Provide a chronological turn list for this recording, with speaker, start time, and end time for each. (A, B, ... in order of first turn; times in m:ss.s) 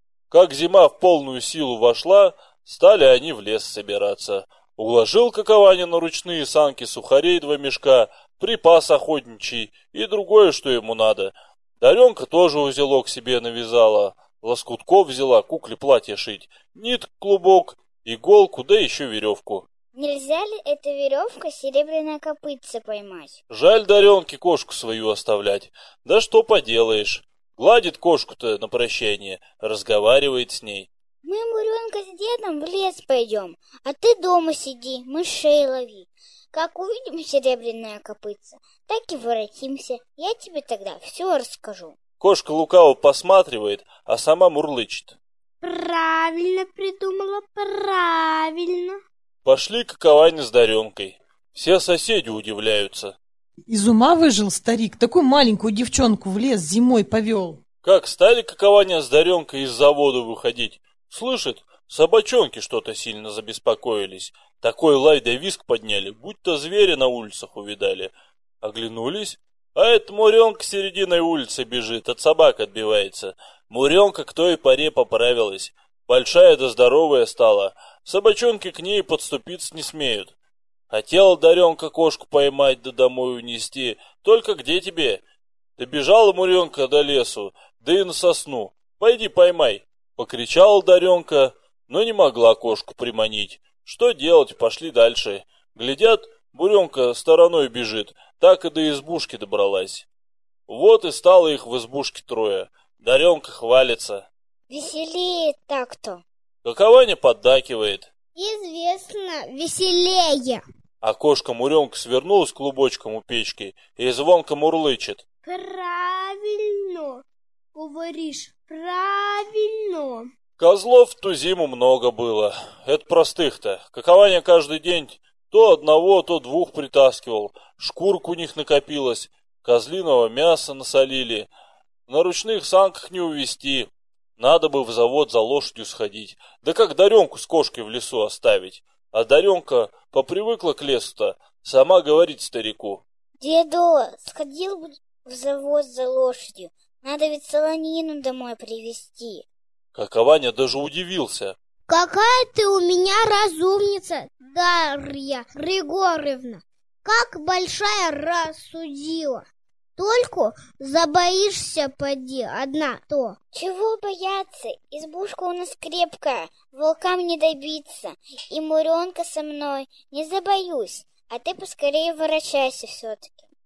0:00.3-0:19.7 A
0:19.9-0:23.4 B
0:23.5-0:30.9 A
0:31.2-0:42.0 B
0:42.2-0:45.2 A
0:45.6-0:49.0 C
0:49.4-0:53.2 A
0:53.7-0:57.6 D
0:57.8-1:20.3 A
1:20.9-1:25.2 A
1:25.8-1:40.1 A
1:40.7-1:44.3 A
1:44.7-1:46.2 B
1:46.6-1:48.1 A
1:48.3-1:50.6 E
1:51.0-1:55.2 A
1:55.4-2:00.3 C
2:00.6-2:11.5 A
2:12.1-2:23.0 A
2:23.4-2:29.4 B
2:29.9-2:31.6 A
2:31.9-2:43.4 E
2:43.5-2:53.4 B